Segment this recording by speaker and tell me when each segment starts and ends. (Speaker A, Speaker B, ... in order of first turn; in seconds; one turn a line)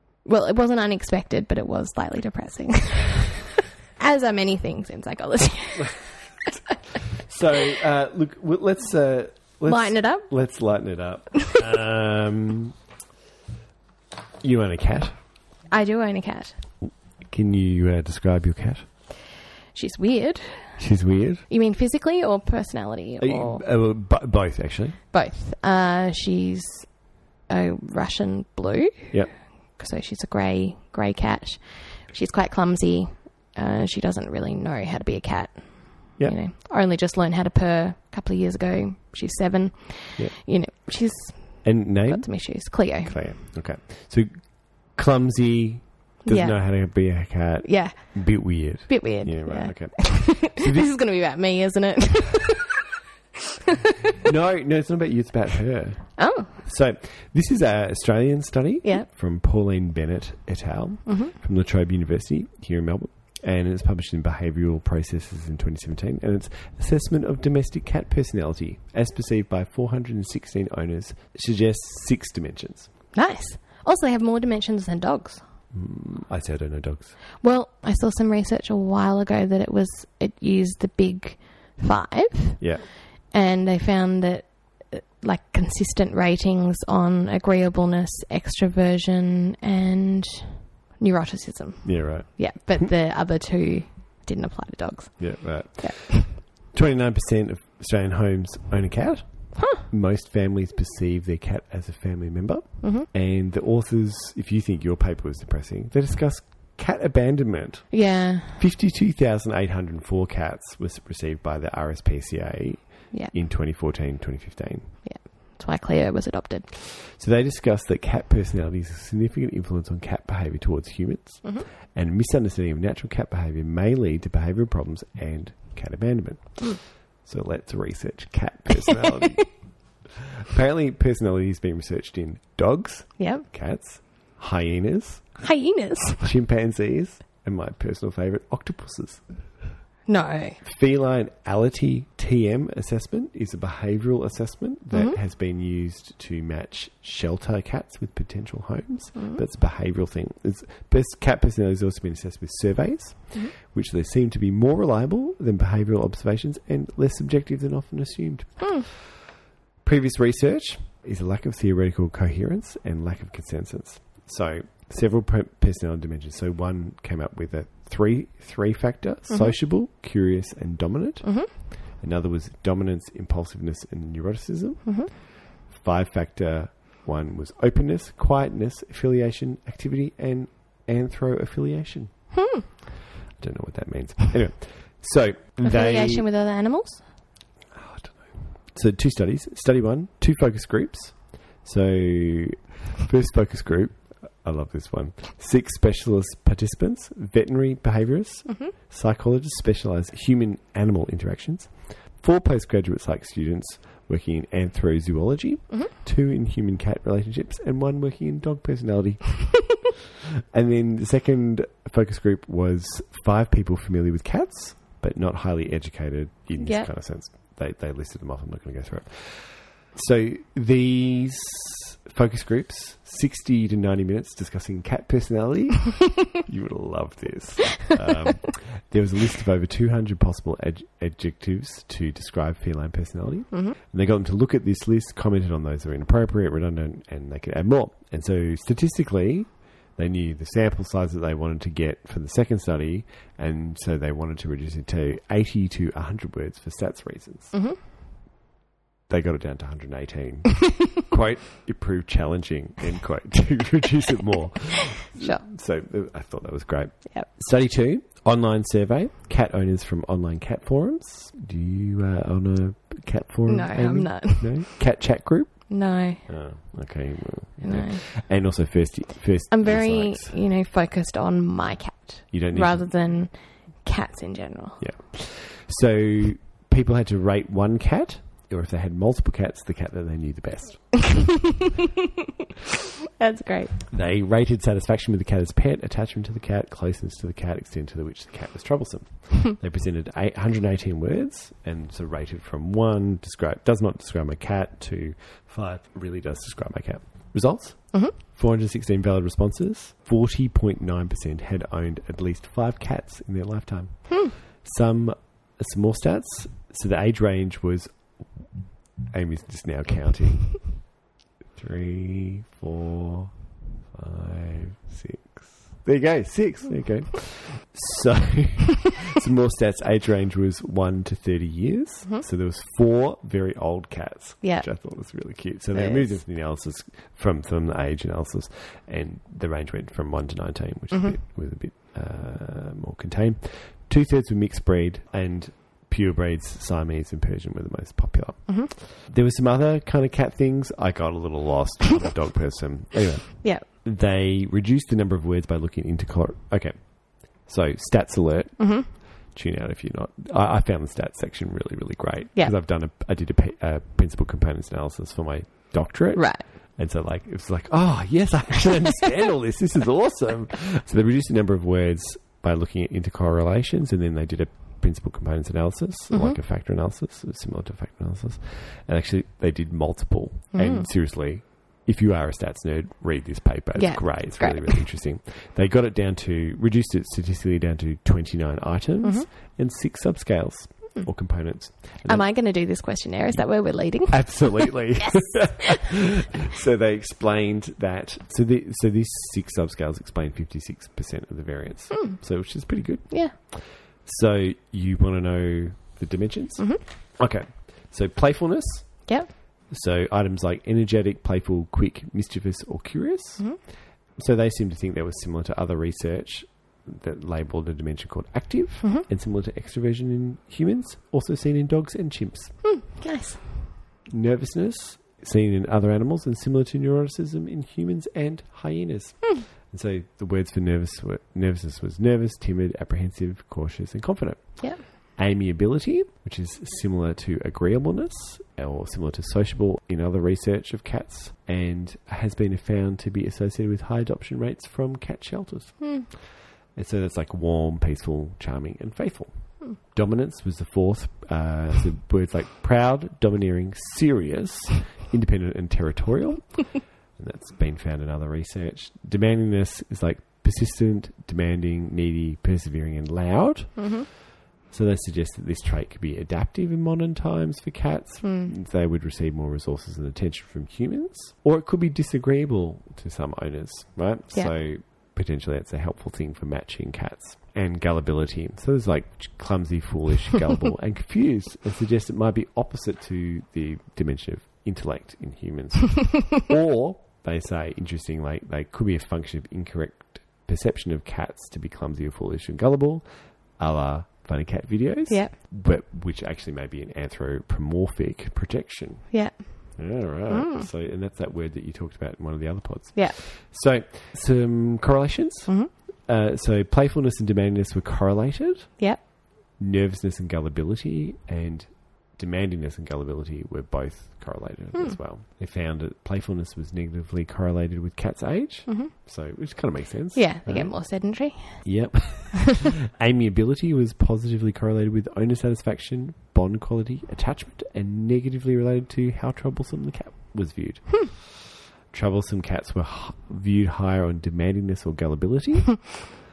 Speaker A: 0.2-6.0
Speaker B: 7.2-12.7
Speaker A: 9.7-10.3
Speaker B: 14.4-15.2
Speaker A: 15.7-16.6
Speaker B: 16.8-18.9
Speaker A: 19.7-20.9
Speaker B: 20.8-21.4
Speaker A: 21.5-23.6
Speaker B: 23.2-25.0
Speaker A: 25.1-43.3
Speaker B: 41.6-50.9
Speaker A: 46.2-46.8
Speaker A: 47.6-52.8
Speaker B: 54.2-72.9
Speaker A: 56.2-56.5
Speaker A: 61.0-61.3
Speaker A: 73.1-75.4
Speaker B: 75.7-77.2
Speaker A: 77.4-96.3
Speaker B: 82.6-82.9
Speaker B: 91.8-92.8
Speaker B: 95.2-114.9
Speaker A: 99.5-99.8
Speaker A: 102.8-103.1
Speaker A: 107.9-108.6
Speaker A: 115.0-116.7
Speaker B: 116.9-135.5
Speaker A: 133.2-133.5
Speaker A: 135.4-136.3
Speaker B: 136.2-139.6
Speaker A: 140.1-140.6
Speaker B: 140.6-159.2
Speaker A: 144.9-145.2
Speaker A: 149.1-149.4
Speaker A: 158.6-158.8
Speaker B: 159.8-182.3
Speaker A: 169.3-169.6
Speaker A: 171.2-171.5
Speaker A: 174.8-175.1
Speaker A: 182.3-182.7
Speaker B: 183.3-186.3
Speaker A: 185.6-187.0
Speaker B: 187.7-209.9
Speaker A: 198.5-198.7
Speaker B: 210.5-247.5
Speaker A: 216.6-216.9
Speaker A: 247.5-247.8
Speaker B: 249.1-270.4
Speaker A: 255.1-255.4
Speaker A: 263.5-264.8
Speaker A: 265.7-266.3
Speaker A: 267.6-268.0
Speaker A: 269.5-274.9
Speaker B: 272.3-272.9
Speaker B: 274.8-281.3
Speaker A: 283.2-283.8
Speaker B: 283.9-308.5
Speaker B: 309.1-310.9
Speaker B: 311.6-382.3
Speaker A: 324.4-326.2
Speaker A: 330.9-331.2
Speaker A: 348.6-348.9
Speaker A: 356.1-356.4
Speaker A: 366.1-366.4
Speaker A: 370.5-370.9
Speaker A: 373.8-374.8
Speaker A: 379.0-379.3
Speaker A: 382.0-385.8
Speaker B: 384.1-412.6
Speaker A: 391.9-392.2
Speaker A: 393.1-393.3
Speaker A: 399.1-399.3
Speaker A: 412.6-413.5
Speaker B: 414.1-454.0
Speaker A: 435.8-436.1
Speaker A: 453.8-454.1
Speaker B: 454.7-499.0
Speaker A: 458.2-458.5
Speaker A: 485.1-485.3
Speaker A: 489.1-490.7
Speaker A: 492.9-493.2
Speaker A: 495.5-495.7
Speaker B: 499.6-510.7
Speaker A: 508.7-508.9
Speaker A: 510.1-511.9
Speaker B: 511.6-526.1